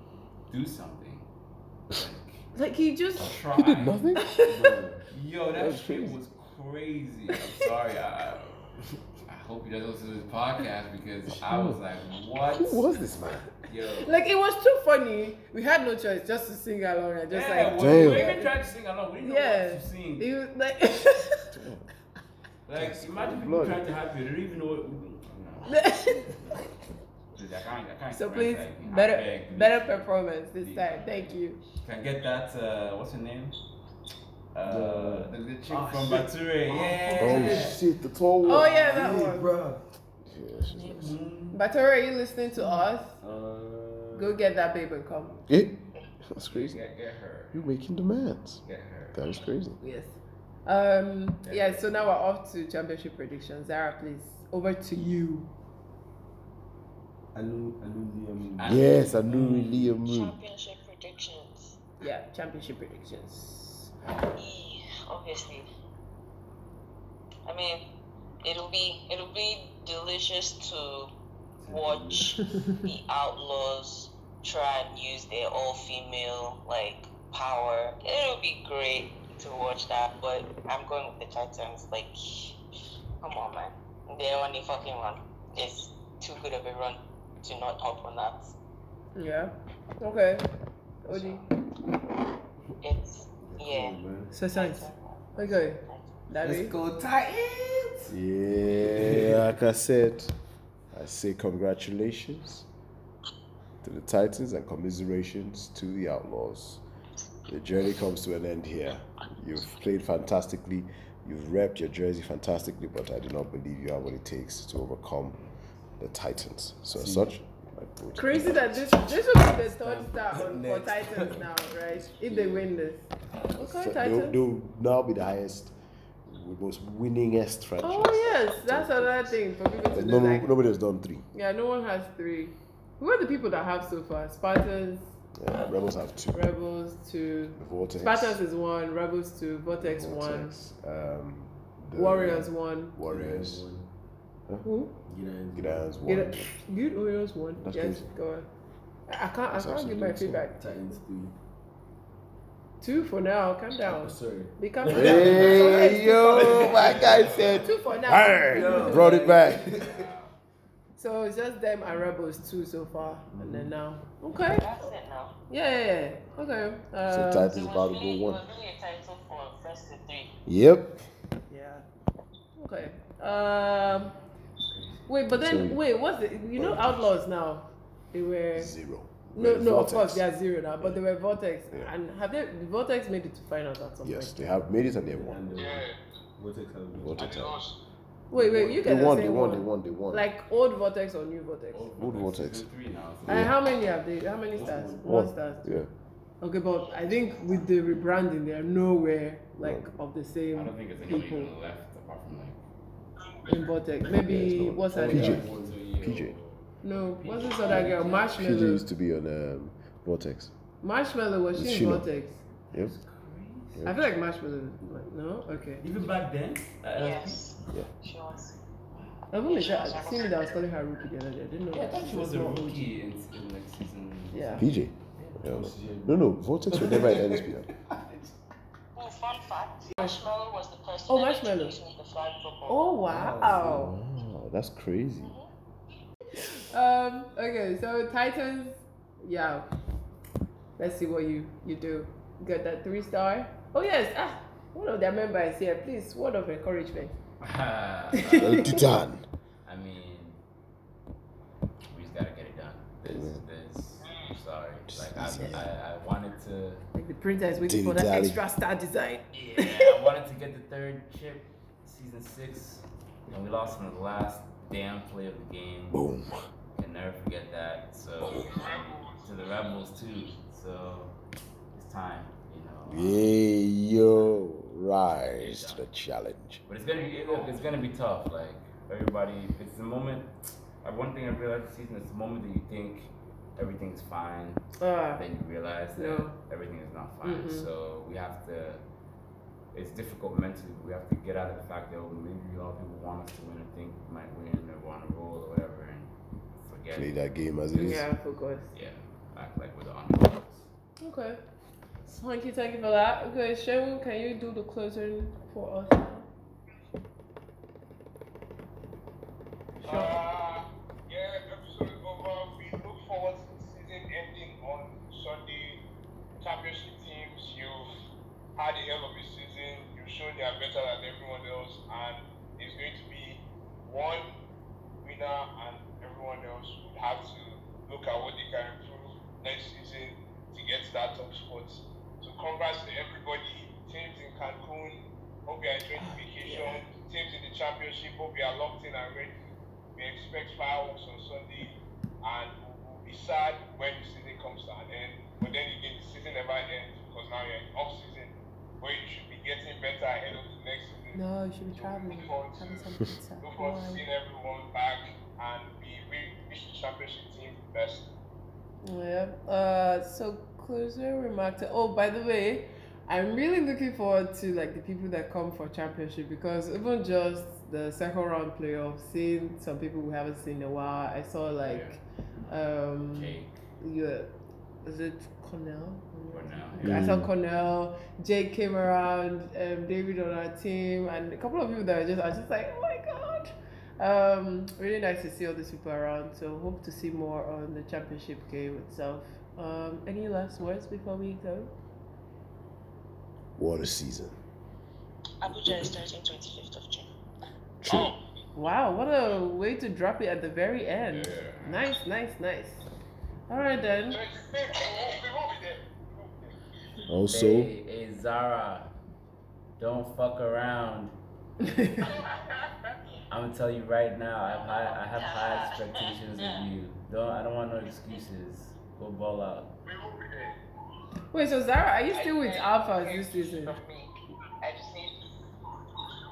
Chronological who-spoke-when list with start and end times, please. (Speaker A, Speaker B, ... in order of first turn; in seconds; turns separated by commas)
Speaker A: 0.5-1.3, Speaker A: 1.9-2.5, Speaker B: 2.5-3.4, Speaker A: 3.1-4.0, Speaker C: 3.6-4.5, Speaker B: 4.2-4.4, Speaker D: 4.5-5.0, Speaker A: 5.1-8.6, Speaker C: 5.5-6.2, Speaker A: 9.2-14.2, Speaker C: 11.3-11.8, Speaker C: 12.5-13.5, Speaker B: 14.0-18.6, Speaker A: 17.3-20.3, Speaker C: 17.7-18.3, Speaker B: 19.2-21.5, Speaker C: 21.5-21.9, Speaker A: 22.7-25.9, Speaker C: 22.8-23.9, Speaker B: 25.7-26.6, Speaker A: 27.3-33.6, Speaker B: 28.1-31.6, Speaker A: 34.5-37.8, Speaker D: 34.6-37.8, Speaker C: 37.2-39.3, Speaker D: 38.5-39.9, Speaker B: 38.5-39.5, Speaker C: 40.2-41.2, Speaker A: 40.7-41.6, Speaker B: 41.5-43.2, Speaker D: 43.2-44.4, Speaker B: 44.1-45.4, Speaker C: 45.5-46.8, Speaker A: 46.4-47.7, Speaker C: 47.5-49.8, Speaker A: 48.6-49.2, Speaker B: 49.8-55.5, Speaker A: 51.5-52.1, Speaker D: 57.3-58.8, Speaker A: 58.6-60.0, Speaker C: 58.6-60.4, Speaker E: 60.0-61.8, Speaker B: 62.0-63.9, Speaker E: 64.3-65.7, Speaker E: 67.5-67.8, Speaker E: 68.4-71.1, Speaker D: 71.6-72.4, Speaker E: 71.7-82.6, Speaker E: 83.2-88.5, Speaker B: 89.2-90.5, Speaker B: 91.0-91.4, Speaker E: 92.8-94.0, Speaker D: 93.4-94.3, Speaker B: 94.3-96.8, Speaker E: 94.5-96.2, Speaker D: 96.4-98.2, Speaker C: 98.1-100.3, Speaker D: 98.7-99.6, Speaker C: 100.9-102.7, Speaker C: 103.8-106.8, Speaker C: 107.5-115.4, Speaker C: 116.0-119.3, Speaker D: 116.9-117.3, Speaker B: 118.2-124.4, Speaker D: 119.7-121.5, Speaker C: 122.0-122.7, Speaker C: 123.5-125.7, Speaker C: 126.3-131.3, Speaker B: 127.8-130.5, Speaker B: 131.3-135.1, Speaker C: 135.4-136.4, Speaker B: 136.3-140.6, Speaker C: 137.6-138.4, Speaker C: 139.8-143.7, Speaker B: 141.9-143.0, Speaker D: 143.1-143.9, Speaker B: 144.6-145.0, Speaker D: 145.1-145.9, Speaker C: 145.6-146.5, Speaker B: 146.1-148.5, Speaker C: 147.6-148.1, Speaker B: 149.1-150.6, Speaker C: 149.5-150.4, Speaker D: 150.6-151.3, Speaker B: 152.8-159.2, Speaker D: 153.9-157.6, Speaker C: 154.9-159.8, Speaker A: 156.9-157.7, Speaker D: 158.5-160.1, Speaker A: 159.7-160.3, Speaker B: 161.0-164.9, Speaker C: 163.3-163.7, Speaker E: 164.5-165.4, Speaker B: 165.5-167.7, Speaker C: 167.0-168.4, Speaker E: 167.5-170.3, Speaker C: 170.5-171.0, Speaker B: 171.5-171.9, Speaker B: 172.6-174.2, Speaker A: 173.9-175.1, Speaker B: 175.1-178.7, Speaker C: 175.3-175.8, Speaker C: 176.6-177.2, Speaker C: 178.5-180.3, Speaker B: 179.3-184.5, Speaker C: 184.0-185.5, Speaker D: 185.2-187.2, Speaker F: 185.6-186.0, Speaker C: 186.9-187.6, Speaker F: 187.2-187.8, Speaker B: 188.3-191.9, Speaker D: 188.3-188.9, Speaker C: 188.8-190.3, Speaker A: 191.7-193.6, Speaker C: 192.0-192.7, Speaker C: 193.3-193.6, Speaker B: 193.3-195.8, Speaker D: 194.5-195.1, Speaker C: 195.0-195.9, Speaker B: 196.4-201.5, Speaker C: 199.6-199.9, Speaker A: 200.5-202.6, Speaker B: 203.5-205.5, Speaker C: 204.0-205.5, Speaker D: 204.9-205.8, Speaker A: 205.1-208.5, Speaker C: 206.0-206.3, Speaker B: 206.8-208.8, Speaker C: 207.7-210.5, Speaker B: 210.8-212.4, Speaker C: 211.5-212.1, Speaker A: 212.7-213.8, Speaker C: 213.7-214.0, Speaker B: 213.8-215.8, Speaker A: 215.8-217.5, Speaker E: 216.9-218.6, Speaker A: 218.9-219.2, Speaker B: 219.3-222.9, Speaker E: 219.4-220.6, Speaker A: 221.7-224.7, Speaker B: 224.3-224.7, Speaker C: 224.6-227.7, Speaker D: 225.2-228.3, Speaker E: 228.9-232.9, Speaker B: 231.1-231.8, Speaker B: 232.7-234.0, Speaker D: 233.1-233.9, Speaker C: 233.2-235.3, Speaker E: 235.2-235.5, Speaker B: 236.3-239.7, Speaker B: 240.8-247.2, Speaker A: 247.4-248.8, Speaker B: 248.1-248.8, Speaker C: 248.3-249.2, Speaker A: 249.7-250.4, Speaker A: 251.9-256.9, Speaker C: 253.1-253.4, Speaker F: 254.1-254.3, Speaker C: 254.9-255.7, Speaker B: 256.9-260.1, Speaker C: 257.6-258.4, Speaker A: 259.3-266.1, Speaker C: 265.9-266.4, Speaker A: 266.7-271.1, Speaker C: 268.2-268.6, Speaker F: 268.3-270.1, Speaker A: 271.7-273.3, Speaker C: 272.9-276.6, Speaker A: 275.2-275.8, Speaker A: 276.7-280.3, Speaker F: 277.0-277.7, Speaker A: 280.8-288.8, Speaker B: 284.8-285.2, Speaker B: 286.0-286.3, Speaker B: 287.2-287.7, Speaker A: 289.7-298.0, Speaker C: 296.9-298.1, Speaker B: 297.7-298.7, Speaker A: 298.7-300.7, Speaker B: 301.0-301.4, Speaker B: 302.1-306.3, Speaker F: 309.8-315.8, Speaker B: 309.9-310.2, Speaker F: 316.4-317.9, Speaker F: 318.6-324.3, Speaker F: 325.0-339.4, Speaker B: 335.9-336.8, Speaker F: 339.9-351.2, Speaker B: 351.1-354.0, Speaker F: 351.8-358.1, Speaker B: 358.8-374.3, Speaker A: 371.6-372.0, Speaker A: 373.1-373.6, Speaker B: 374.8-391.7, Speaker A: 376.3-377.1, Speaker C: 376.8-377.3, Speaker C: 393.6-394.4, Speaker E: 395.4-397.1, Speaker C: 397.8-398.1, Speaker F: 397.9-398.2, Speaker B: 398.6-402.9, Speaker A: 401.0-401.9, Speaker B: 403.5-404.2, Speaker F: 404.1-406.5, Speaker E: 404.8-405.2, Speaker C: 407.1-407.7, Speaker A: 407.3-408.9, Speaker A: 409.8-411.1, Speaker B: 411.6-412.1, Speaker F: 412.1-412.7, Speaker A: 413.3-419.8, Speaker E: 414.5-416.6, Speaker F: 419.9-420.6, Speaker B: 421.3-423.8, Speaker E: 422.1-424.1, Speaker E: 424.6-425.2